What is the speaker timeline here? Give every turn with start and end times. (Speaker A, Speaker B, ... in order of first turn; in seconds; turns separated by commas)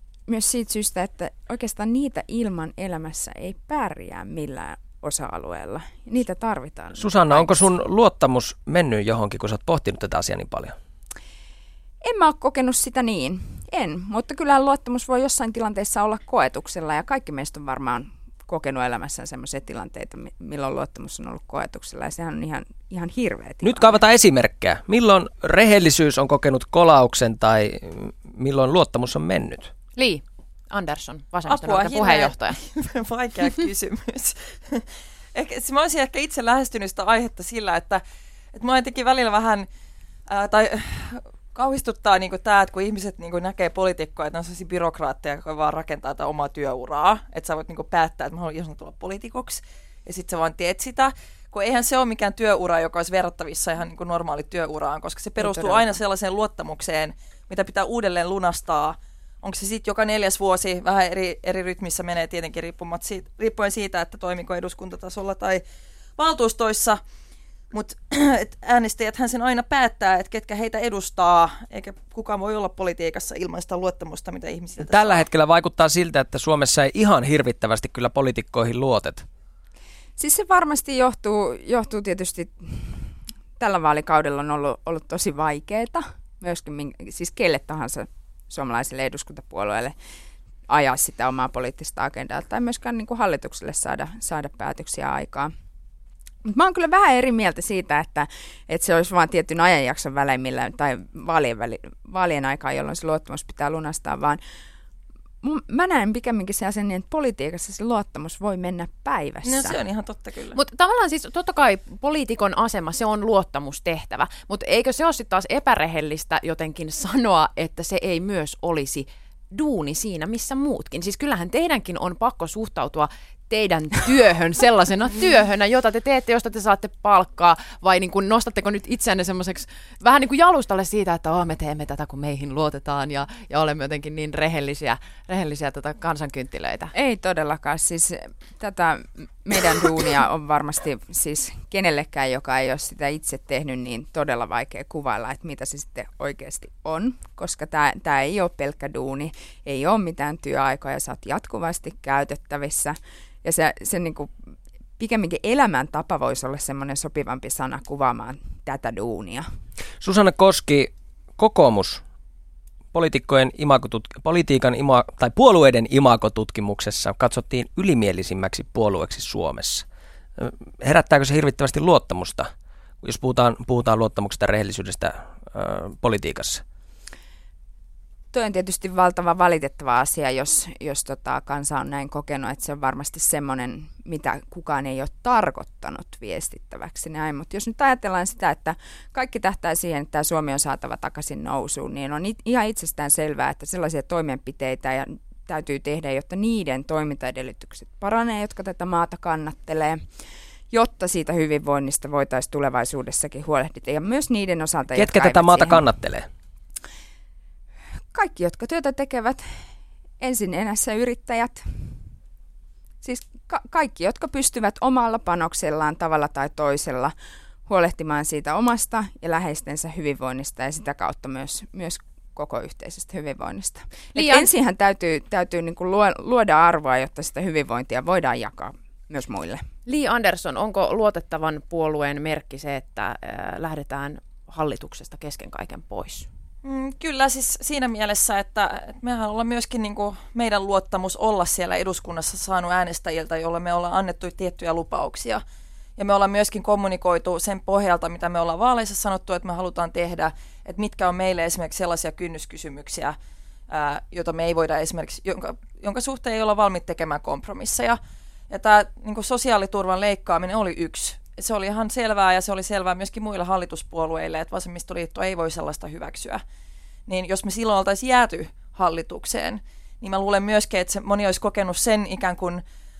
Speaker A: 0.3-7.7, Speaker B: 7.0-10.7, Speaker A: 12.0-24.0, Speaker B: 23.6-29.7, Speaker C: 29.9-32.6, Speaker D: 31.5-38.0, Speaker D: 38.5-39.7, Speaker D: 40.3-65.6, Speaker A: 55.4-55.8, Speaker D: 66.2-67.0, Speaker D: 67.7-75.2, Speaker B: 74.8-79.2, Speaker A: 80.2-89.9, Speaker A: 90.7-95.5, Speaker A: 96.4-104.4, Speaker A: 105.4-109.8, Speaker D: 109.4-110.6, Speaker C: 110.5-136.9, Speaker A: 136.9-154.3, Speaker A: 155.0-159.4, Speaker B: 160.0-162.0, Speaker B: 162.9-169.8, Speaker B: 170.4-172.5, Speaker B: 173.0-176.6, Speaker A: 178.3-200.0, Speaker A: 200.7-205.8, Speaker B: 204.9-206.2, Speaker A: 208.1-209.4, Speaker A: 210.2-211.6, Speaker A: 213.0-217.1, Speaker A: 217.7-229.6, Speaker C: 224.1-224.5, Speaker C: 229.8-236.3, Speaker D: 236.6-245.4, Speaker D: 246.0-253.1, Speaker D: 253.7-258.0, Speaker D: 258.5-266.4, Speaker D: 267.1-272.6